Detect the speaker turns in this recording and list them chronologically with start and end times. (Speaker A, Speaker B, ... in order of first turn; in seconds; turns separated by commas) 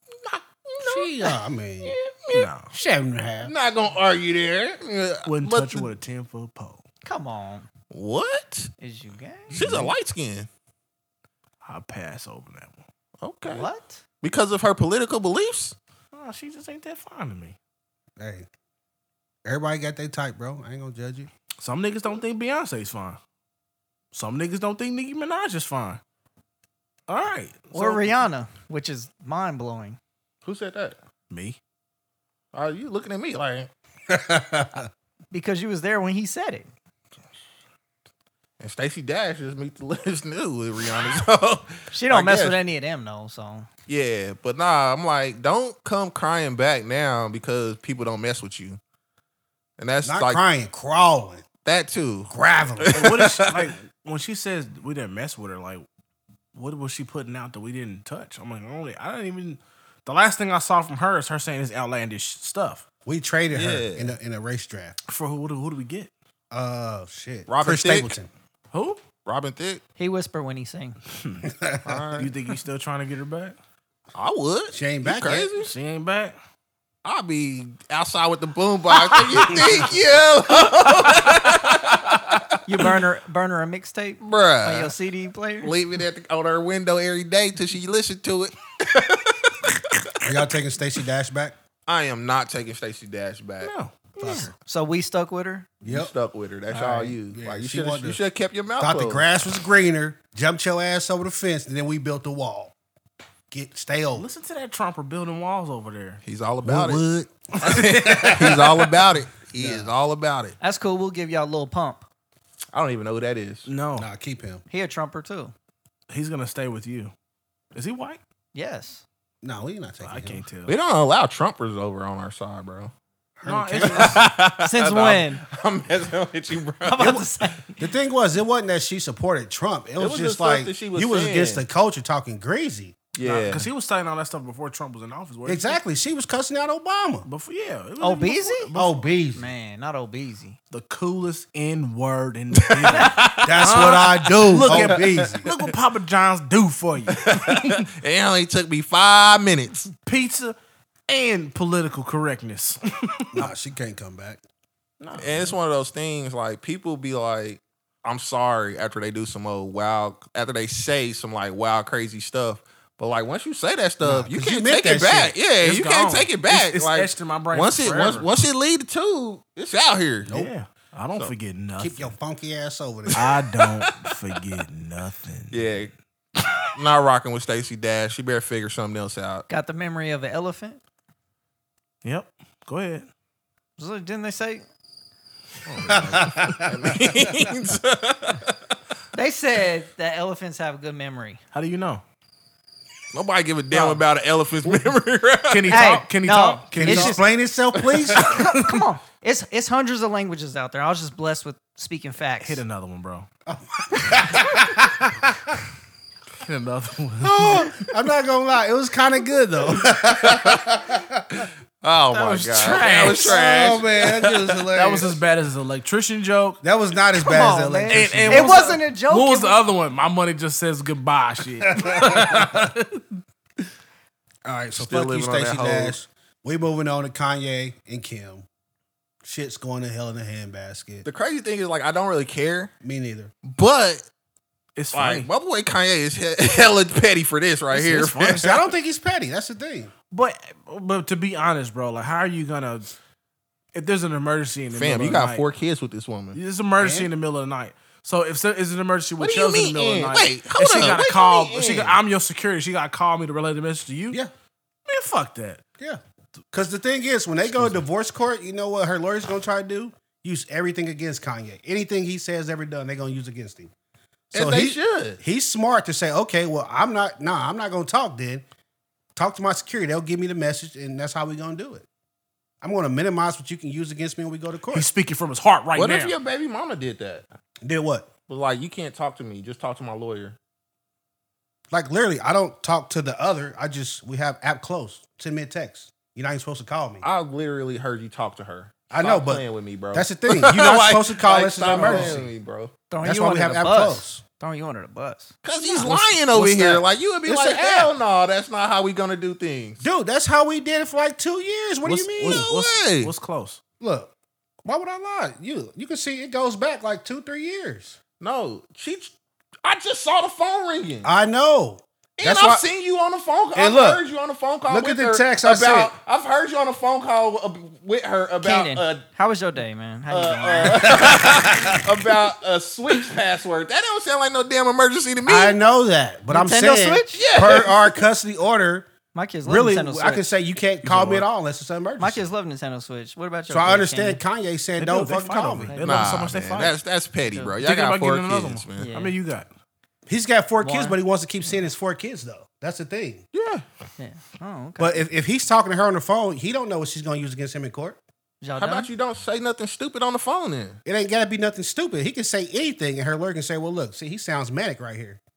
Speaker A: 0.2-2.5, Speaker B: 0.8-1.9, Speaker C: 2.3-2.7, Speaker B: 2.7-3.5, Speaker A: 3.4-5.9, Speaker C: 5.2-6.8, Speaker D: 7.0-7.7, Speaker A: 7.9-8.7, Speaker D: 8.8-9.7, Speaker A: 9.5-10.5, Speaker C: 9.5-9.9, Speaker C: 11.6-12.8, Speaker A: 13.2-13.7, Speaker D: 13.5-14.0, Speaker A: 14.2-15.7, Speaker C: 16.1-17.6, Speaker B: 18.2-18.5, Speaker B: 19.4-21.3, Speaker C: 21.6-23.2, Speaker C: 24.1-26.0, Speaker C: 27.1-28.1, Speaker D: 27.7-30.0, Speaker A: 30.4-30.9, Speaker C: 31.3-31.6, Speaker A: 32.5-33.7, Speaker B: 34.1-34.9, Speaker D: 35.3-36.7, Speaker A: 38.6-42.5, Speaker D: 41.9-43.7, Speaker A: 43.9-48.8, Speaker A: 49.8-50.4, Speaker B: 50.0-51.4, Speaker A: 51.6-53.6, Speaker B: 52.3-53.0, Speaker C: 52.9-55.9, Speaker C: 56.5-62.8, Speaker B: 63.0-65.0, Speaker A: 63.5-64.2, Speaker C: 65.1-66.1, Speaker B: 66.5-68.3, Speaker A: 67.5-68.2, Speaker C: 68.7-69.0, Speaker A: 69.2-69.8, Speaker D: 70.0-71.0, Speaker C: 71.1-71.5, Speaker B: 71.4-71.8, Speaker A: 71.8-72.3, Speaker C: 72.2-73.5, Speaker A: 74.1-75.7, Speaker B: 74.7-75.5, Speaker C: 75.6-76.4, Speaker A: 77.0-82.9, Speaker C: 79.2-79.9, Speaker D: 82.7-85.7, Speaker A: 84.2-84.9, Speaker A: 85.6-90.3, Speaker B: 90.2-91.5, Speaker A: 91.9-93.7, Speaker C: 93.6-94.5, Speaker B: 94.2-94.5, Speaker D: 94.2-95.7, Speaker B: 95.8-96.1, Speaker A: 95.8-99.2, Speaker D: 96.7-97.1, Speaker B: 97.3-98.2, Speaker B: 98.8-102.7, Speaker B: 103.5-104.3, Speaker C: 104.1-106.2, Speaker A: 106.2-107.0, Speaker B: 106.6-108.7, Speaker C: 107.6-108.8, Speaker A: 107.6-110.5, Speaker B: 109.5-109.9, Speaker D: 110.6-112.1, Speaker A: 112.7-113.7, Speaker C: 113.7-114.1, Speaker B: 114.0-114.6, Speaker D: 114.7-115.5, Speaker C: 116.1-117.1, Speaker C: 117.7-118.2, Speaker D: 118.5-119.0, Speaker B: 119.4-120.4, Speaker C: 120.0-120.8, Speaker A: 120.7-122.9, Speaker B: 123.4-124.2, Speaker C: 123.4-124.3, Speaker A: 123.8-127.3, Speaker D: 124.6-125.4, Speaker D: 126.8-127.9, Speaker B: 127.8-133.0, Speaker A: 130.0-131.6, Speaker A: 133.1-133.7, Speaker C: 133.2-135.8, Speaker B: 135.4-137.3, Speaker C: 137.2-139.0, Speaker D: 138.0-138.7, Speaker B: 138.7-139.5, Speaker D: 139.3-140.6, Speaker C: 140.7-147.9, Speaker A: 142.5-145.7, Speaker B: 143.4-145.5, Speaker A: 147.1-149.9, Speaker C: 150.0-150.6, Speaker C: 151.1-153.5, Speaker B: 153.3-154.4, Speaker C: 155.0-155.5, Speaker A: 155.2-170.3, Speaker B: 164.0-165.3, Speaker C: 165.6-168.3, Speaker B: 170.2-170.5, Speaker C: 170.3-172.1, Speaker B: 171.8-173.2, Speaker A: 173.1-174.1, Speaker C: 173.1-175.6, Speaker A: 175.5-175.9, Speaker A: 176.7-179.4, Speaker D: 179.5-180.8, Speaker C: 182.0-183.1, Speaker D: 183.8-184.6, Speaker A: 185.7-188.5, Speaker C: 185.8-186.4, Speaker B: 185.9-187.3, Speaker D: 189.1-191.4, Speaker C: 191.5-192.0, Speaker A: 193.1-195.9, Speaker C: 195.5-197.2, Speaker D: 195.7-197.2, Speaker B: 196.7-198.2, Speaker A: 197.8-198.3, Speaker D: 198.1-202.6, Speaker C: 198.3-198.8, Speaker C: 202.4-203.3, Speaker B: 203.5-205.5, Speaker C: 206.4-207.8, Speaker B: 207.2-211.2, Speaker A: 210.2-210.7, Speaker A: 211.3-214.6, Speaker C: 212.1-213.4, Speaker D: 212.2-213.1, Speaker B: 213.0-215.2, Speaker C: 214.7-216.6, Speaker B: 216.6-218.8, Speaker D: 217.1-219.6, Speaker C: 217.9-223.0, Speaker B: 221.7-222.6, Speaker B: 224.4-228.4, Speaker A: 224.7-225.9, Speaker B: 229.2-231.1, Speaker A: 231.0-232.7, Speaker B: 232.8-233.3, Speaker A: 233.4-234.1, Speaker C: 234.8-235.3, Speaker A: 234.9-238.5, Speaker C: 237.7-238.6, Speaker B: 238.4-239.9, Speaker C: 240.1-242.9, Speaker C: 243.7-245.4, Speaker A: 244.7-246.4, Speaker C: 246.3-254.2, Speaker B: 246.8-247.1, Speaker A: 249.2-252.0, Speaker C: 254.9-255.6, Speaker B: 256.5-263.7, Speaker B: 264.3-268.4, Speaker A: 264.3-265.2, Speaker B: 269.1-271.9, Speaker B: 272.6-274.9, Speaker C: 274.7-276.1, Speaker A: 275.7-277.3, Speaker B: 277.6-278.1, Speaker A: 278.3-280.4, Speaker B: 281.7-287.0, Speaker A: 287.0-292.7, Speaker B: 288.9-292.3, Speaker C: 291.7-292.1, Speaker D: 292.9-296.0, Speaker B: 293.0-294.2, Speaker A: 295.4-299.8, Speaker B: 295.8-297.9, Speaker B: 299.8-302.5, Speaker C: 301.8-303.6, Speaker A: 302.2-303.1, Speaker B: 303.8-304.1, Speaker B: 304.6-308.0, Speaker A: 308.2-311.1, Speaker B: 311.0-312.6, Speaker A: 312.2-319.0, Speaker B: 313.5-314.0, Speaker B: 314.7-315.9, Speaker D: 318.4-321.2, Speaker A: 320.1-325.6, Speaker B: 320.7-322.1, Speaker B: 325.2-328.9, Speaker D: 326.3-327.2, Speaker A: 327.1-328.0, Speaker D: 329.1-330.3, Speaker B: 329.4-332.2, Speaker C: 330.8-331.2, Speaker D: 332.0-334.2, Speaker B: 333.5-335.8, Speaker C: 334.8-336.8, Speaker D: 335.7-336.1, Speaker A: 335.8-338.9, Speaker C: 337.6-339.5, Speaker D: 338.8-339.1, Speaker B: 340.1-343.2, Speaker D: 340.6-341.0, Speaker A: 343.3-343.6, Speaker D: 344.0-345.0, Speaker B: 344.8-348.0, Speaker D: 348.4-348.9, Speaker A: 348.6-350.8, Speaker B: 350.9-355.2